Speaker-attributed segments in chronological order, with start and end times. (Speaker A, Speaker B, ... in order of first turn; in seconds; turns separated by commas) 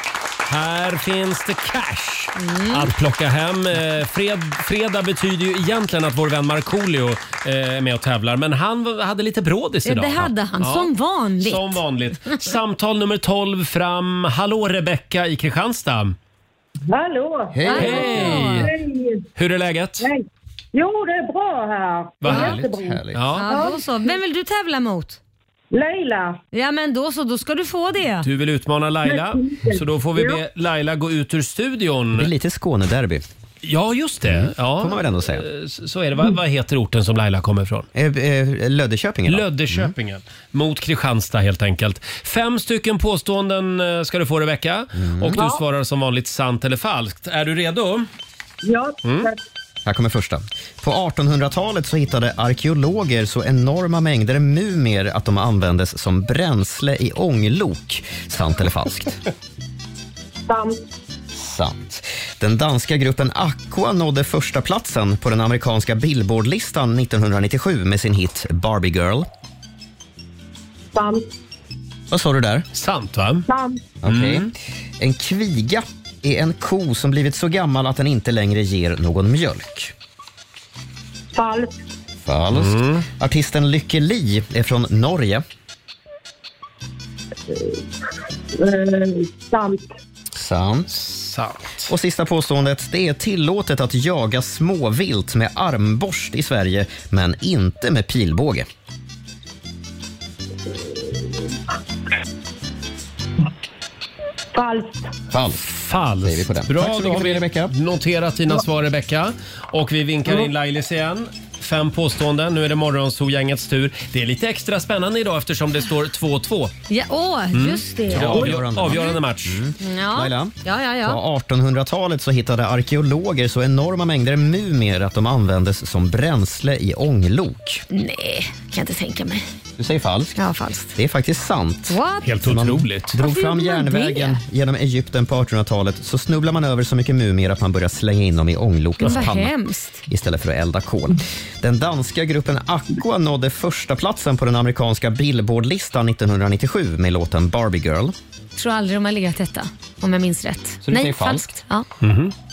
Speaker A: 0.5-16.1, Speaker B: 2.4-2.9, Speaker B: 9.8-11.8, Speaker C: 16.9-19.3, Speaker D: 17.5-18.4, Speaker B: 17.6-18.7, Speaker A: 17.7-18.7, Speaker A: 19.4-20.1, Speaker C: 20.0-23.8, Speaker A: 22.2-22.6, Speaker D: 22.2-23.2, Speaker A: 23.1-23.5, Speaker B: 23.3-25.2, Speaker C: 25.7-26.4, Speaker B: 26.5-28.3, Speaker A: 28.2-32.3, Speaker C: 29.1-30.4, Speaker D: 32.1-33.2, Speaker A: 33.6-37.9, Speaker D: 34.2-35.5, Speaker D: 38.0-39.9, Speaker A: 39.3-48.1, Speaker D: 45.0-45.4, Speaker C: 45.3-45.6, Speaker C: 48.6-49.4, Speaker D: 49.9-59.2, Speaker C: 60.5-60.8, Speaker D: 61.3-69.3, Speaker C: 70.9-71.2, Speaker D: 72.1-72.7, Speaker A: 72.8-73.5, Speaker C: 73.5-73.8, Speaker D: 74.0-79.9, Speaker A: 74.0-74.5, Speaker C: 81.3-81.8, Speaker D: 82.2-85.4, Speaker A: 82.5-83.1, Speaker C: 87.5-87.8, Speaker C: 88.5-89.9, Speaker D: 90.3-90.9, Speaker A: 90.9-91.9, Speaker D: 91.9-98.7, Speaker C: 104.5-105.1, Speaker D: 105.3-105.7, Speaker A: 105.7-116.7, Speaker D: 106.2-107.7, Speaker B: 116.9-119.2, Speaker A: 117.5-119.6, Speaker D: 118.1-127.8, Speaker B: 119.8-121.2, Speaker B: 127.9-129.4, Speaker D: 129.8-130.4, Speaker B: 130.4-130.9, Speaker D: 130.9-139.6, Speaker B: 131.9-132.3, Speaker A: 132.2-133.1, Speaker B: 133.2-134.4, Speaker B: 139.0-140.0, Speaker D: 140.1-148.2, Speaker B: 148.6-151.9, Speaker D: 150.8-151.5, Speaker A: 152.0-152.3